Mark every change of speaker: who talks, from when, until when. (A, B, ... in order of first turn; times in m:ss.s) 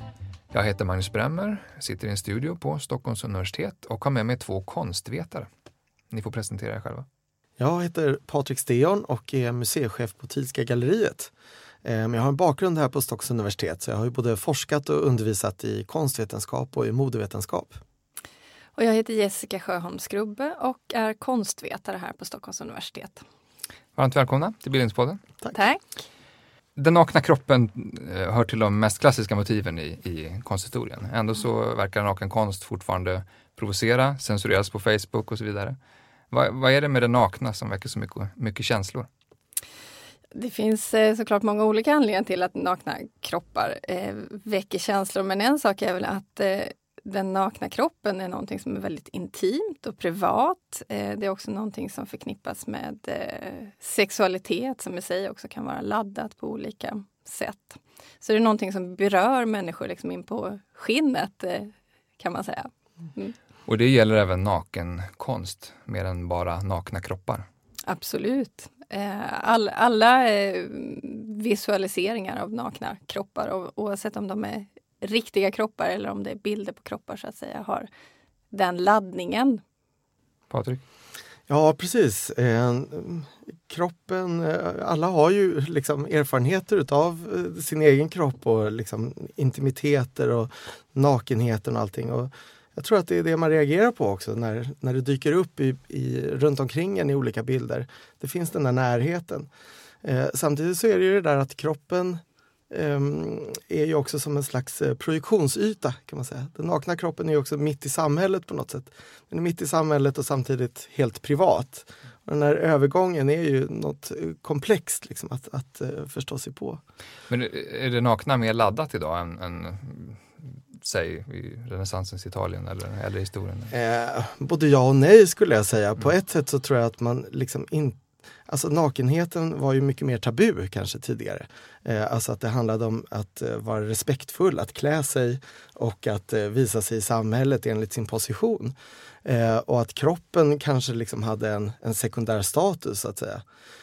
0:00.5-0:05.5 A
0:06.1-0:07.0 A
0:07.6-0:11.3 B
0:11.8-0:17.8 B
0:18.8-0:23.2 C
0:24.0-0:25.2 A
0:25.5-0:25.8 C
0:26.8-0:35.8 A
0:36.3-0:39.1 A
0:40.3-1:03.3 C
1:03.6-1:07.4 A
1:07.9-1:17.9 C
1:18.5-1:19.6 C
1:20.5-1:20.8 A
1:21.5-1:39.5 B
1:40.0-1:56.8 B
1:57.3-2:03.7 A
2:03.7-2:23.4 B